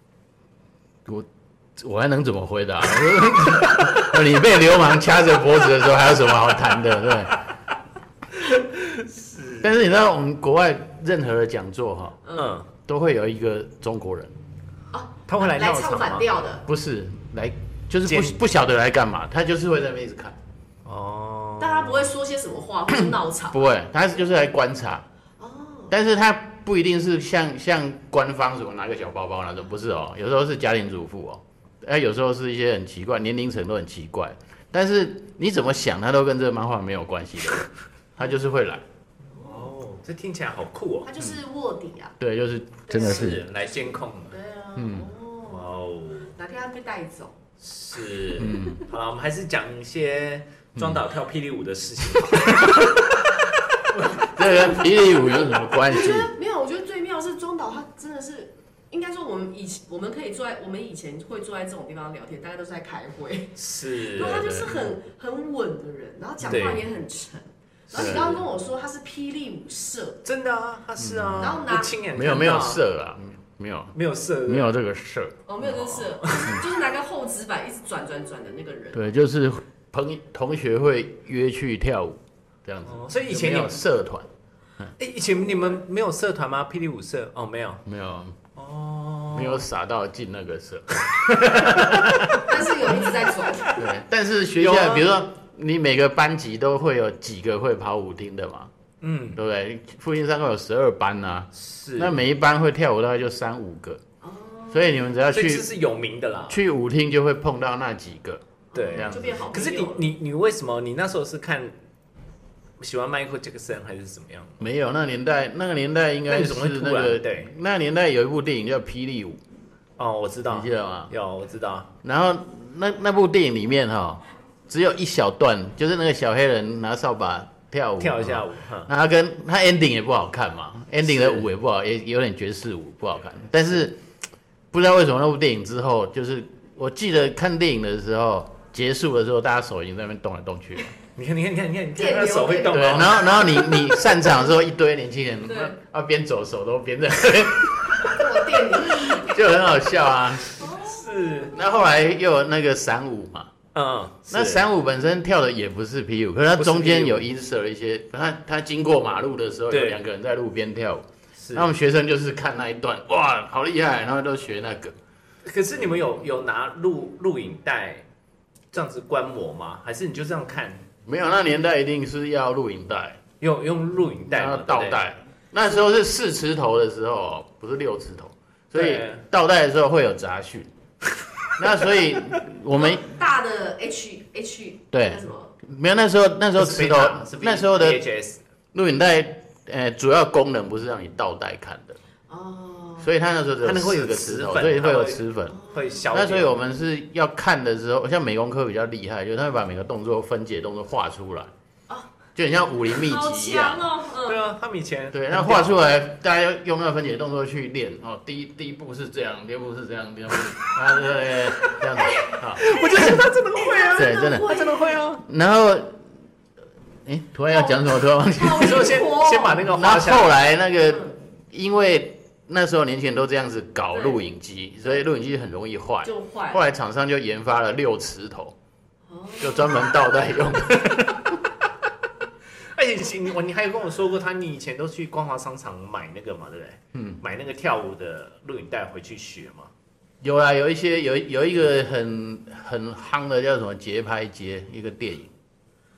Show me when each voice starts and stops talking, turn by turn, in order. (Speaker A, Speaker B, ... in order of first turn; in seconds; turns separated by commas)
Speaker A: 1.1-7.4, Speaker B: 8.4-9.8, Speaker A: 9.6-12.2, Speaker C: 12.2-12.6, Speaker B: 12.3-12.7, Speaker A: 12.8-14.3, Speaker C: 14.9-16.6, Speaker B: 15.3-16.3, Speaker A: 16.7-20.4, Speaker B: 18.1-18.4, Speaker B: 20.9-22.1, Speaker C: 21.6-23.6, Speaker A: 23.1-25.1, Speaker C: 25.4-25.9, Speaker A: 25.9-38.8, Speaker C: 39.4-39.7, Speaker B: 39.4-41.1, Speaker C: 41.0-42.2, Speaker A: 42.2-43.4, Speaker C: 42.9-45.8, Speaker B: 42.9-44.4, Speaker A: 44.8-45.1, Speaker B: 45.5-46.3, Speaker C: 46.3-47.4, Speaker B: 47.6-53.2, Speaker A: 48.4-48.9, Speaker A: 50.8-51.0, Speaker A: 52.2-53.0, Speaker B: 53.9-54.2, Speaker C: 54.0-70.2, Speaker A: 54.0-56.3, Speaker B: 63.6-64.6, Speaker A: 64.2-65.0, Speaker A: 66.4-66.8, Speaker B: 66.5-66.8, Speaker B: 67.9-68.4, Speaker A: 68.0-68.3, Speaker B: 70.2-72.8, Speaker A: 71.0-74.0, Speaker C: 71.4-72.0, Speaker B: 74.0-74.7, Speaker A: 74.5-76.6, Speaker C: 75.5-79.1, Speaker B: 76.0-76.6, Speaker A: 78.9-84.3, Speaker B: 82.9-83.8, Speaker B: 85.0-87.8, Speaker A: 87.9-88.4, Speaker B: 88.6-89.7, Speaker A: 89.3-92.5, Speaker B: 91.6-92.4, Speaker C: 92.4-93.8, Speaker A: 93.7-98.7, Speaker B: 94.6-95.1, Speaker B: 99.0-99.4, Speaker A: 99.4-104.0, Speaker B: 101.5-102.2, Speaker C: 104.2-105.0, Speaker A: 104.7-105.7, Speaker B: 105.3-106.6, Speaker A: 106.5-109.5, Speaker C: 108.7-110.1, Speaker B: 108.7-111.7, Speaker B: 112.8-114.6, Speaker A: 114.6-119.4, Speaker B: 116.3-117.5, Speaker B: 120.0-121.9, Speaker A: 120.5-121.1, Speaker A: 122.0-134.0, Speaker B: 128.0-128.9, Speaker B: 131.0-131.5, Speaker A: 134.7-140.9, Speaker B: 141.2-143.4, Speaker C: 142.0-144.0, Speaker A: 142.7-150.6, Speaker C: 145.4-145.8, Speaker C: 148.0-149.4, Speaker C: 150.6-151.6, Speaker B: 150.6-151.5, Speaker A: 151.5-153.5, Speaker B: 153.8-154.7, Speaker A: 154.3-164.9, Speaker B: 156.6-157.3, Speaker B: 159.7-160.0, Speaker B: 161.4-161.7, Speaker B: 165.4-168.1, Speaker B: 168.7-170.8, Speaker A: 171.1-173.2, Speaker B: 173.4-175.0, Speaker A: 174.3-180.7, Speaker B: 178.7-179.2, Speaker A: 181.6-183.2, Speaker B: 181.6-182.4, Speaker C: 182.7-185.5, Speaker A: 184.9-188.0, Speaker B: 186.6-188.4, Speaker A: 188.7-192.0, Speaker C: 192.3-193.1, Speaker A: 193.0-195.6, Speaker B: 193.6-196.6, Speaker C: 195.5-196.1, Speaker A: 196.1-201.5, Speaker A: 202.4-203.9, Speaker C: 202.9-204.4, Speaker B: 204.2-205.8, Speaker A: 205.1-213.2, Speaker C: 211.7-215.0, Speaker B: 212.6-215.2, Speaker A: 214.0-214.6, Speaker A: 215.2-216.0, Speaker A: 217.1-219.1, Speaker C: 217.5-219.8, Speaker B: 218.5-220.3, Speaker A: 219.7-228.6, Speaker C: 220.9-221.1, Speaker C: 223.9-224.2, Speaker C: 226.0-226.6, Speaker C: 229.1-229.9, Speaker A: 229.4-231.6, Speaker B: 232.6-239.7, Speaker A: 236.9-237.2, Speaker A: 240.2-245.3